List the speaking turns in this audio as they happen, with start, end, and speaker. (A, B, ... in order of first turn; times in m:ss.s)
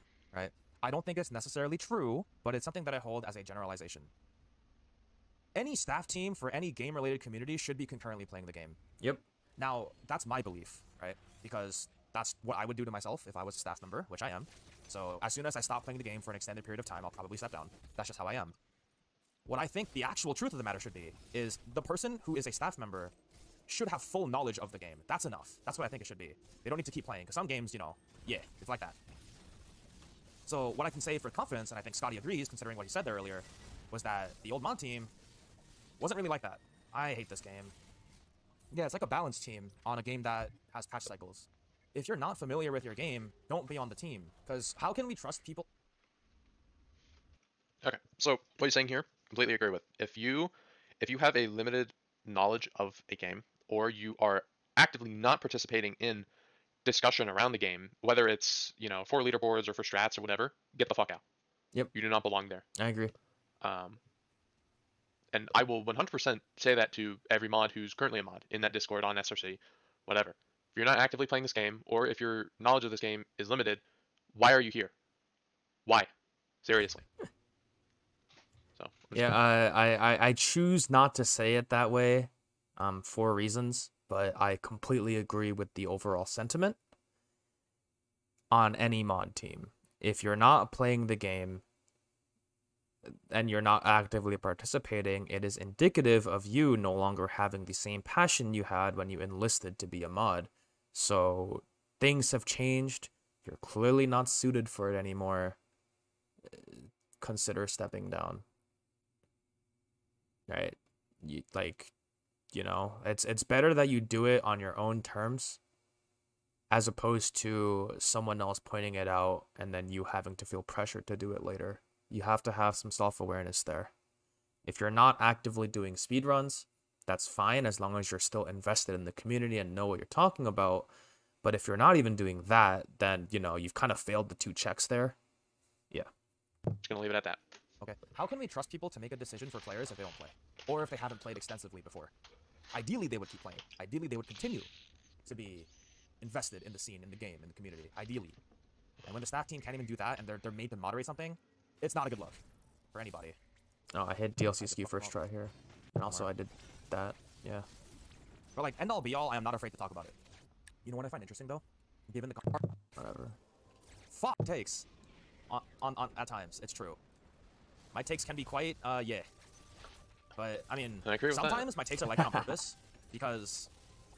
0:00.3-0:04.1 A
0:05.6-0:08.8 A
0:09.6-0:18.6 A
0:19.5-0:23.1 A
0:23.7-0:29.0 A
0:30.5-0:35.1 A
0:36.0-0:37.7 A
0:38.7-0:45.7 A
0:47.8-0:56.3 B
0:56.8-1:01.2 B
1:01.9-1:02.6 B
1:02.8-1:03.1 C
1:03.6-1:04.0 B
1:05.3-1:13.8 B
1:14.3-1:14.9 B
1:16.6-1:17.1 B
1:18.8-1:19.4 B
1:19.1-1:26.8 C
1:28.5-1:31.6 C
1:33.1-1:45.6 C
1:46.5-1:48.4 C
1:50.5-1:51.9 C
1:52.5-1:55.6 C
1:56.7-2:03.9 C
2:04.7-2:10.9 C
2:11.4-2:15.2 C
2:16.8-2:17.4 B
2:17.8-2:22.1 A
2:22.7-2:24.7 A
2:25.2-2:25.7 A
2:26.2-2:28.4 A
2:29.1-2:32.4 A
2:32.9-2:33.4 A
2:33.9-2:37.7 C
2:34.6-2:35.1 A
2:38.6-2:40.2 A
2:40.8-2:42.7 A
2:43.0-2:43.4 C
2:44.1-2:44.9 A
2:45.5-2:47.0 A
2:47.9-2:49.3 A
2:50.4-2:53.7 A
2:51.0-2:51.7 B